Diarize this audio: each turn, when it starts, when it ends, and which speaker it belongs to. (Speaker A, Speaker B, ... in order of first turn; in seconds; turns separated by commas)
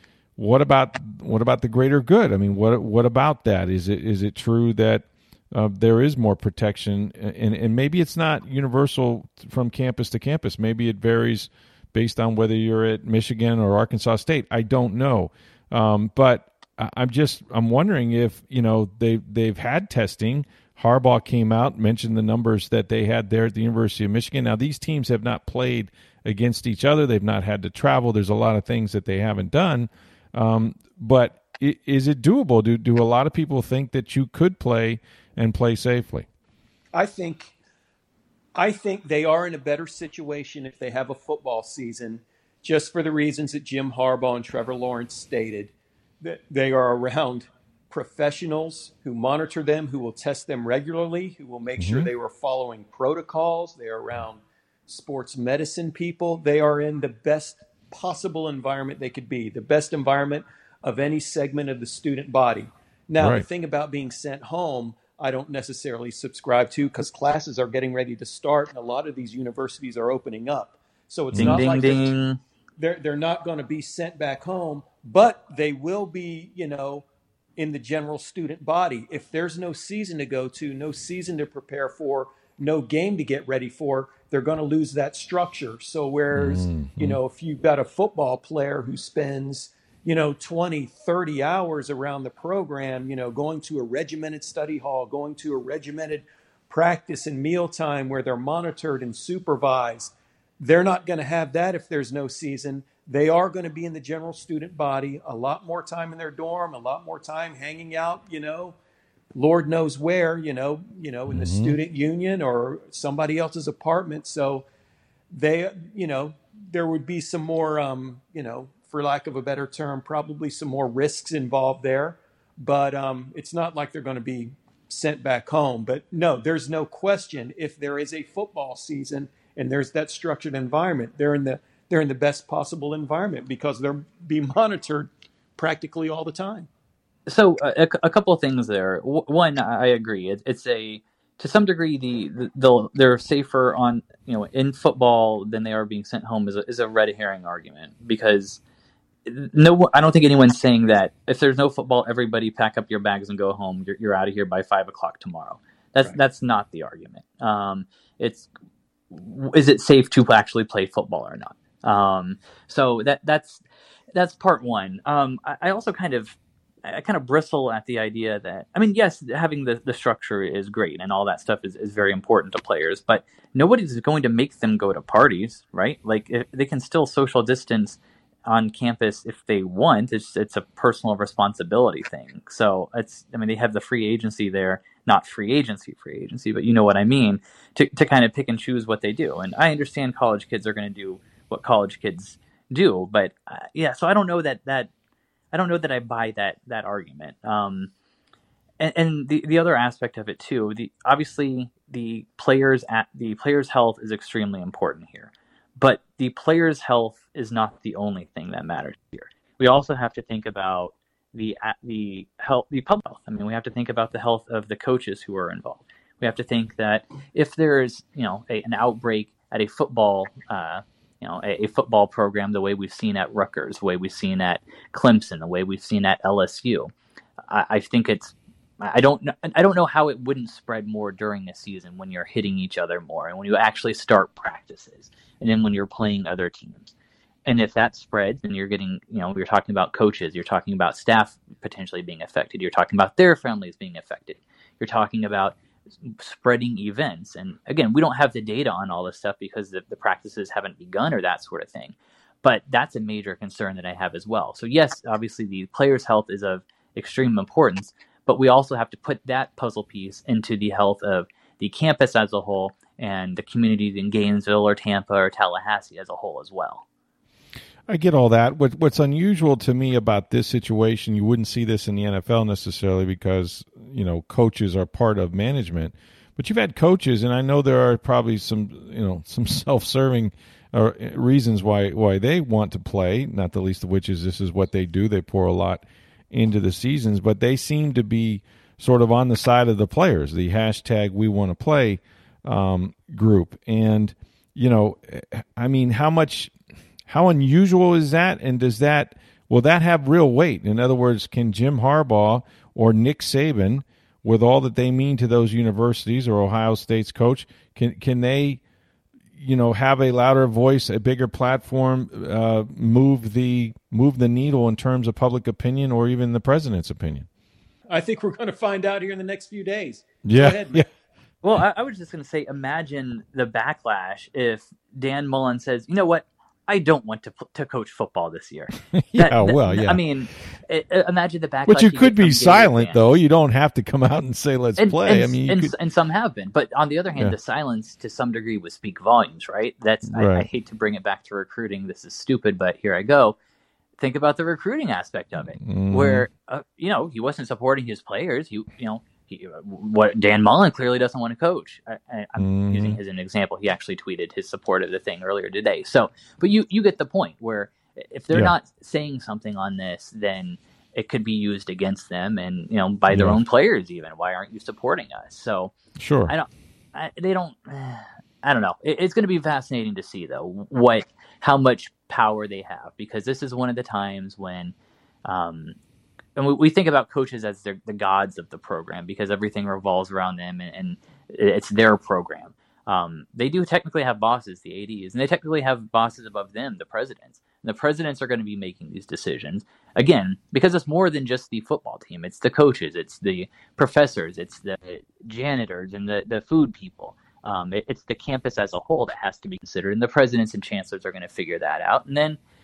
Speaker A: 0.4-36.3, Speaker B: 36.9-37.5, Speaker B: 38.5-72.2, Speaker A: 51.8-52.1, Speaker A: 63.2-63.4, Speaker A: 71.3-71.7, Speaker C: 71.4-72.4, Speaker B: 72.8-77.0, Speaker B: 77.6-108.8, Speaker A: 86.3-87.2, Speaker B: 109.3-114.7, Speaker A: 111.3-111.8, Speaker B: 115.3-136.7, Speaker C: 137.3-148.6, Speaker C: 149.2-158.5, Speaker C: 159.1-163.6, Speaker C: 164.1-194.9, Speaker C: 195.5-197.9, Speaker C: 198.8-226.9, Speaker C: 227.5-236.9, Speaker C: 237.4-266.8, Speaker A: 267.9-296.5, Speaker A: 297.1-308.6, Speaker A: 309.4-317.3, Speaker B: 317.9-320.9, Speaker A: 320.2-320.9, Speaker C: 321.4-333.2, Speaker A: 328.9-330.0, Speaker A: 331.7-335.7, Speaker C: 334.8-343.4, Speaker A: 340.1-340.5, Speaker C: 344.0-365.7, Speaker A: 345.6-346.2, Speaker A: 352.4-353.0, Speaker A: 363.1-363.4, Speaker A: 366.0-366.3, Speaker C: 366.3-375.8, Speaker C: 376.4-402.4